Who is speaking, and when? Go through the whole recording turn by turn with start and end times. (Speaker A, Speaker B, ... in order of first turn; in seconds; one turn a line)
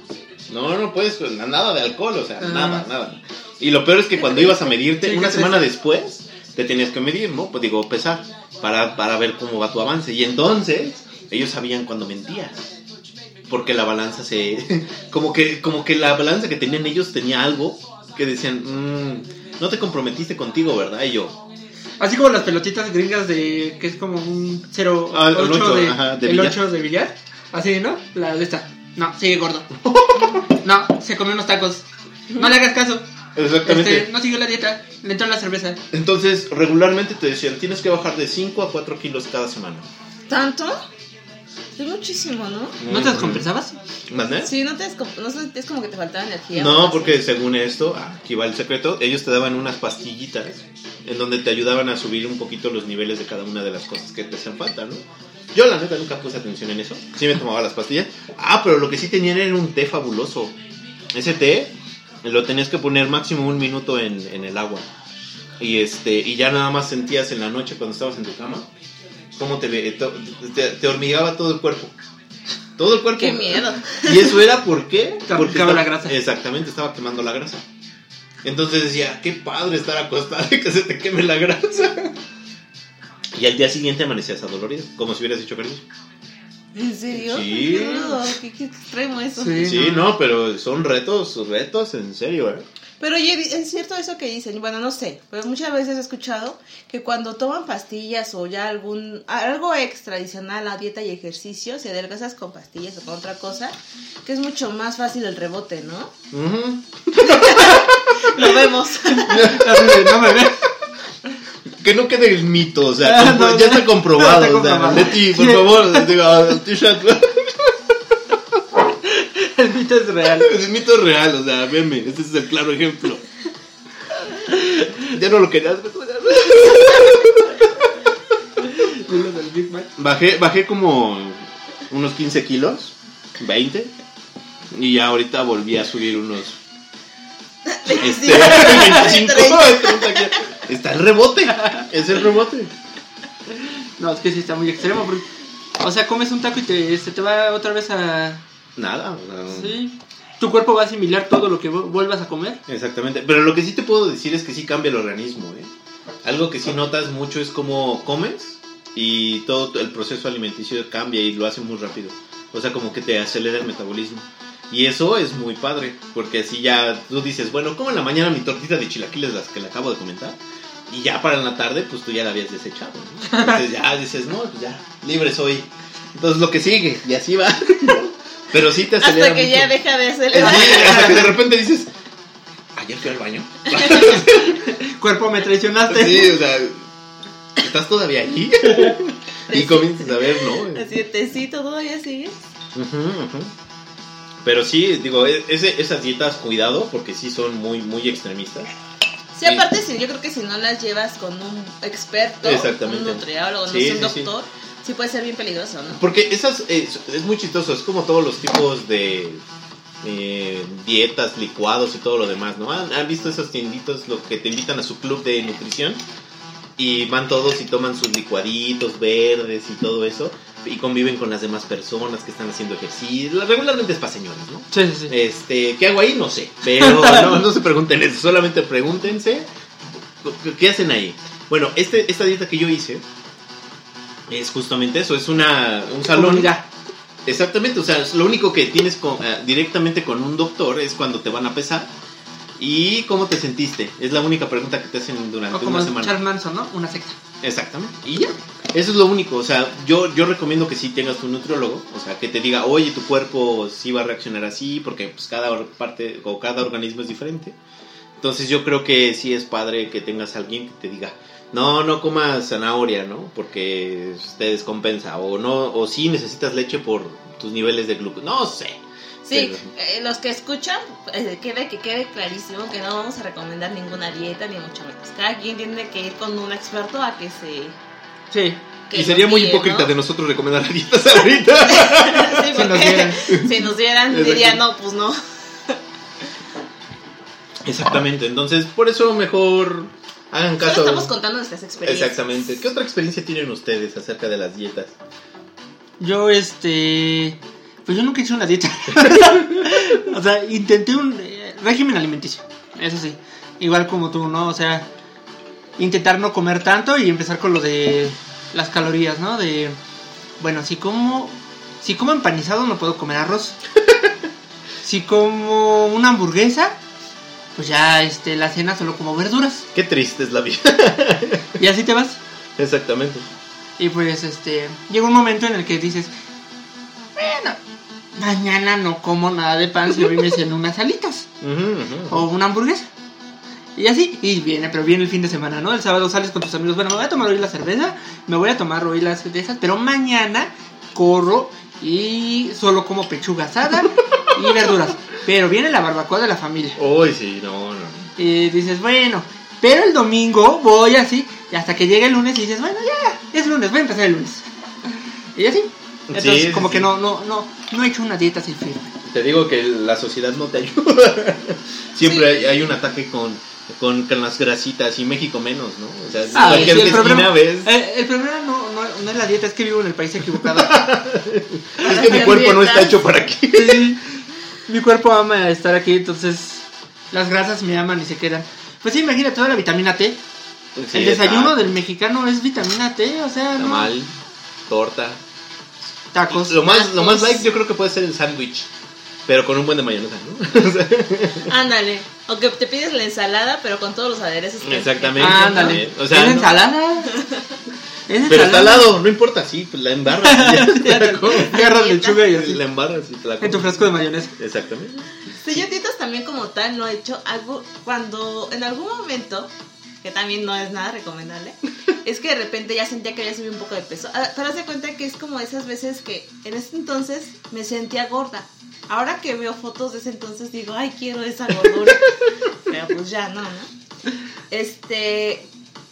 Speaker A: 0.5-12.7
Speaker B: 2.4-2.9
Speaker B: 4.2-5.7
Speaker A: 13.5-21.4
Speaker B: 22.0-29.7
Speaker A: 25.1-26.6
Speaker A: 29.7-30.5
Speaker B: 30.6-33.1
Speaker A: 33.4-34.1
Speaker B: 33.6-35.8
Speaker A: 35.9-39.9
Speaker C: 40.3-40.8
Speaker C: 41.8-42.8
Speaker A: 42.8-43.5
Speaker B: 42.9-43.8
Speaker A: 44.1-44.5
Speaker C: 44.4-47.2
Speaker A: 46.5-60.6
Speaker A: 61.1-61.7
Speaker A: 62.2-64.9
Speaker A: 65.6-68.7
Speaker A: 69.4-72.0
Speaker A: 72.8-77.7
Speaker C: 73.2-74.4
Speaker B: 75.3-76.2
Speaker A: 78.4-82.1
Speaker A: 83.3-85.9
Speaker C: 86.8-89.7
Speaker A: 87.1-88.3
Speaker B: 89.4-90.1
Speaker A: 89.6-92.7
Speaker C: 93.0-106.1
Speaker A: 106.3-108.1
Speaker C: 107.2-109.4
Speaker B: 109.1-110.7
Speaker A: 109.3-110.5
Speaker A: 111.8-117.8
Speaker B: 113.0-116.1
Speaker B: 119.0-120.5
Speaker A: 120.3-123.2
Speaker A: 124.8-127.9
Speaker B: 128.7-129.9
Speaker A: 130.0-133.9
Speaker A: 134.7-136.6
Speaker C: 137.7-140.4
Speaker A: 137.9-142.7
Speaker B: 144.0-145.3
Speaker B: 145.8-148.4
Speaker A: 148.8-149.8
Speaker B: 149.5-152.6
Speaker A: 152.7-155.7
Speaker A: 156.2-179.7
Speaker B: 173.3-173.6
Speaker C: 179.0-181.3
Speaker A: 180.3-181.9
Speaker B: 180.4-181.3
Speaker A: 182.8-184.6
Speaker C: 183.7-184.2
Speaker B: 184.3-186.4
Speaker A: 185.9-186.9
Speaker A: 187.6-190.9
Speaker C: 189.5-192.4
Speaker A: 192.8-193.5
Speaker A: 194.4-198.7
Speaker C: 199.3-206.0
Speaker A: 202.4-204.3
Speaker A: 206.0-209.4
Speaker A: 210.0-216.0
Speaker A: 216.8-229.5
Speaker B: 224.7-225.1
Speaker B: 226.8-227.4
Speaker A: 230.2-233.0
Speaker A: 234.3-236.5
Speaker B: 236.1-236.7
Speaker A: 237.3-241.9
Speaker A: 242.6-246.2
Speaker B: 245.5-247.2
Speaker A: 247.4-257.6
Speaker A: 258.2-269.7
Speaker C: 269.2-277.8
Speaker B: 278.3-278.6
Speaker C: 278.9-279.9
Speaker A: 278.9-282.5
Speaker C: 281.7-285.8
Speaker B: 282.5-283.2
Speaker A: 283.3-283.5
Speaker A: 284.1-284.6
Speaker A: 287.6-291.1
Speaker C: 290.6-292.2
Speaker A: 291.9-294.9
Speaker B: 296.0-304.9
Speaker B: 305.8-309.8
Speaker B: 310.4-313.6
Speaker A: 313.9-314.1
Speaker B: 314.8-316.8
Speaker B: 317.6-319.7
Speaker A: 319.7-321.6
Speaker B: 321.6-322.2
Speaker A: 322.6-323.3
Speaker B: 323.8-326.1
Speaker B: 327.2-327.6
Speaker B: 328.1-331.3
Speaker A: 331.4-332.3
Speaker B: 332.1-332.9
Speaker B: 333.8-346.8
Speaker A: 346.8-348.1
Speaker B: 348.2-358.9
Speaker A: 356.1-356.9
Speaker A: 359.1-367.7
Speaker C: 362.0-362.4
Speaker B: 366.3-370.9
Speaker C: 366.4-366.7
Speaker A: 370.4-373.9
Speaker C: 371.8-373.0
Speaker B: 373.5-380.2
Speaker A: 380.8-381.7
Speaker B: 380.9-383.9
Speaker A: 383.6-384.1
Speaker A: 384.7-385.2
Speaker B: 386.1-387.4
Speaker A: 386.3-388.7
Speaker A: 389.3-391.5
Speaker C: 391.5-395.9
Speaker A: 394.6-396.6
Speaker B: 395.2-397.2
Speaker C: 397.1-397.5
Speaker B: 398.1-398.9
Speaker A: 398.2-401.6
Speaker B: 400.2-402.6
Speaker C: 401.4-402.3
Speaker A: 402.2-405.1
Speaker B: 403.4-404.3
Speaker C: 405.4-409.5
Speaker C: 410.0-422.1
Speaker C: 422.7-423.7
Speaker C: 424.5-425.5